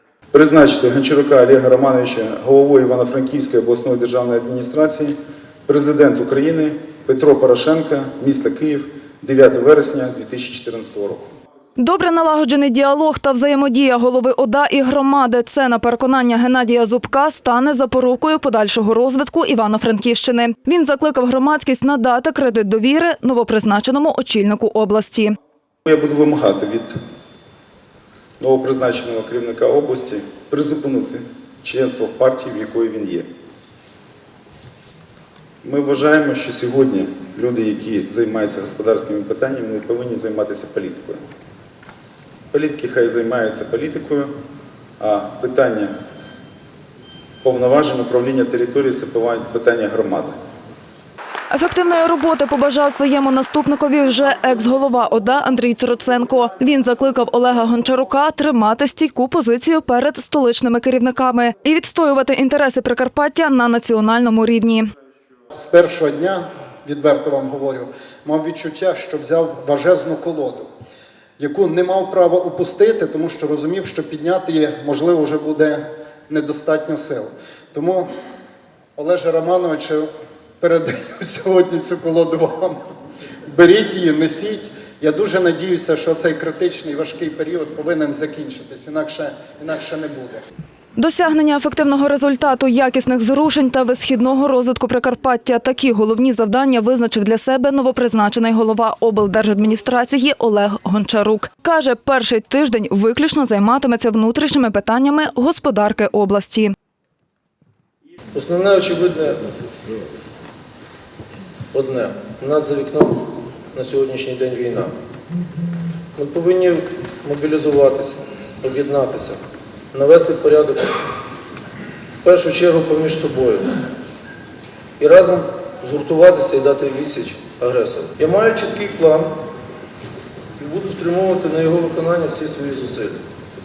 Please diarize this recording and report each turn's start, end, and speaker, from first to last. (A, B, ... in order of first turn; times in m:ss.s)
0:00.3-0:11.3 A
0:11.8-0:25.4 B
0:25.9-0:26.9 A
0:28.4-0:33.3 A
0:35.6-0:41.2 A
0:42.5-0:44.3 A
0:45.0-0:45.9 A
0:47.4-0:50.4 A
0:51.5-1:04.9 B
1:05.5-1:10.7 C
1:11.4-1:18.1 C
1:19.0-1:20.1 C
1:20.6-1:22.8 C
1:23.5-1:30.4 C
1:31.0-1:46.7 B
1:48.3-1:49.5 D
1:51.7-1:54.9 D
1:56.2-1:59.4 D
1:59.9-2:01.0 D
2:02.2-2:03.8 D
2:05.0-2:09.4 D
2:10.6-2:13.2 D